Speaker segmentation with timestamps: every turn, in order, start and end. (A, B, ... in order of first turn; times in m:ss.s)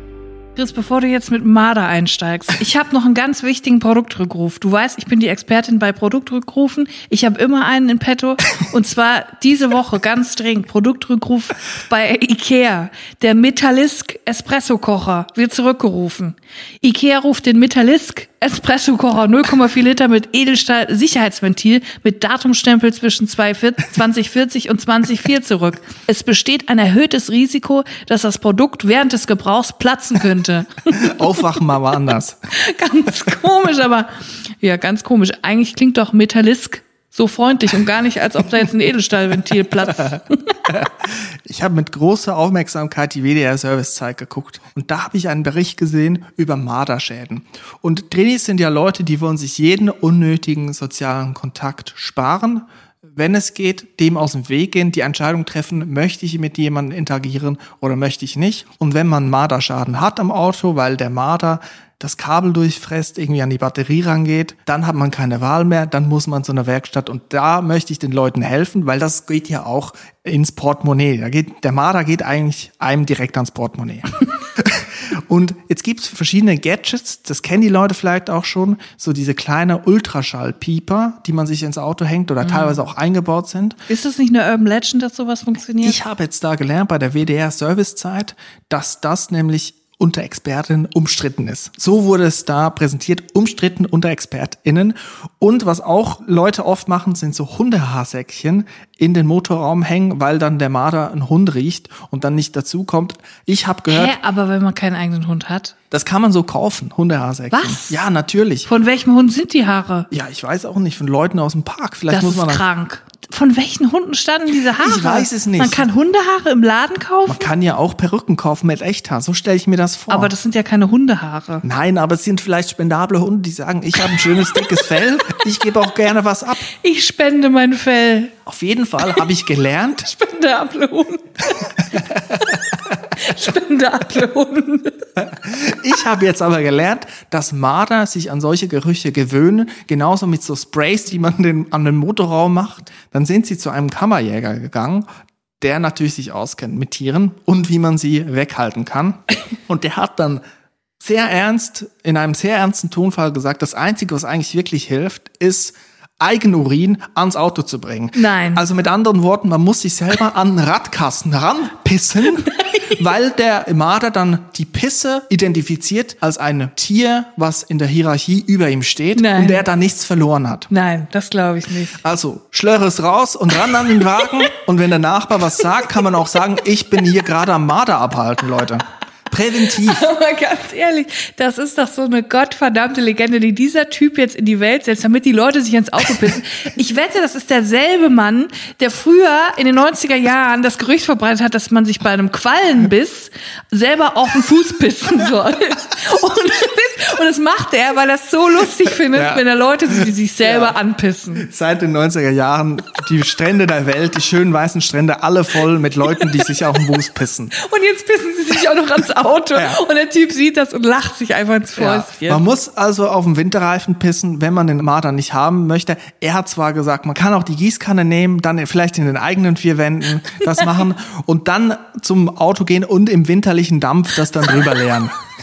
0:00.6-0:31.2 A
0:31.0-0:32.4 B
0:32.5-0:40.4 A
0:40.7-1:23.8 B
1:22.4-1:22.8 A
1:23.9-1:26.0 A
1:25.8-1:44.2 B
1:43.9-1:45.8 A
1:45.9-1:48.7 B
1:47.5-1:48.0 A
1:48.6-1:50.1 A
1:50.1-1:52.7 B
1:52.1-1:57.5 A
1:54.8-1:55.9 B
1:57.3-2:00.3 B
2:00.1-2:01.6 A
2:01.6-2:06.7 B
2:06.7-2:08.4 A
2:08.5-2:10.1 B
2:10.0-2:11.7 A
2:13.2-2:15.1 A
2:15.2-2:25.1 B
2:25.6-2:30.4 B
2:31.0-2:50.7 B
2:38.2-2:38.6 A
2:49.2-2:49.6 A
2:50.7-2:52.0 A
2:52.0-3:00.1 B
2:59.8-3:21.5 A
3:19.1-3:20.8 B
3:21.4-3:27.6 B
3:27.6-3:32.4 A
3:29.6-3:29.8 B
3:31.8-3:45.2 B